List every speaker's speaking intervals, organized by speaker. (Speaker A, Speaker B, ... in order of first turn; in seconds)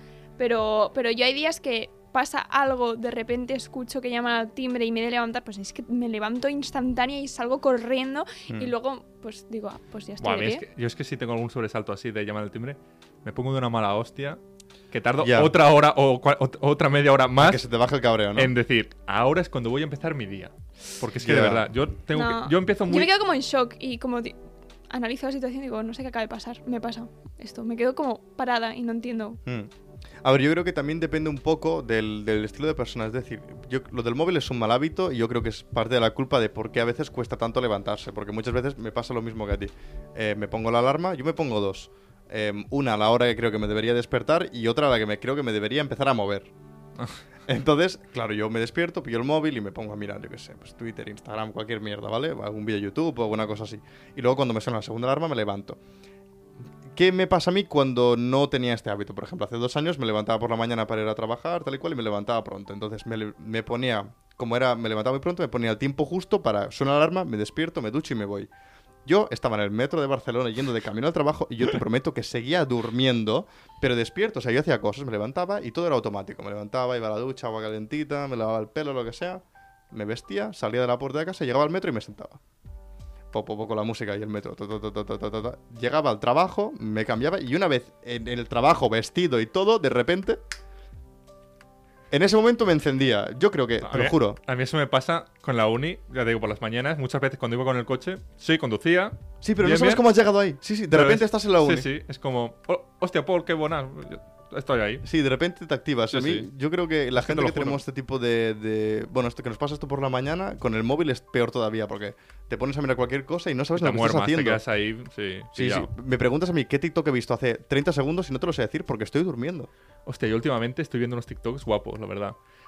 Speaker A: 0.4-10.6, 22.1-24.4, 24.9-29.4
Speaker B: 10.2-14.4, 14.9-17.6, 18.4-23.1, 93.8-100.0, 100.9-105.0, 106.1-106.5, 107.2-107.8, 113.8-115.9, 120.1-122.4
Speaker C: 15.2-15.6, 17.4-18.5, 21.2-21.7, 29.5-29.7, 30.2-46.5, 47.5-55.8, 56.9-68.5, 69.0-82.4, 83.3-90.4, 92.1-94.4, 99.4-101.9, 105.0-114.6, 115.5-119.7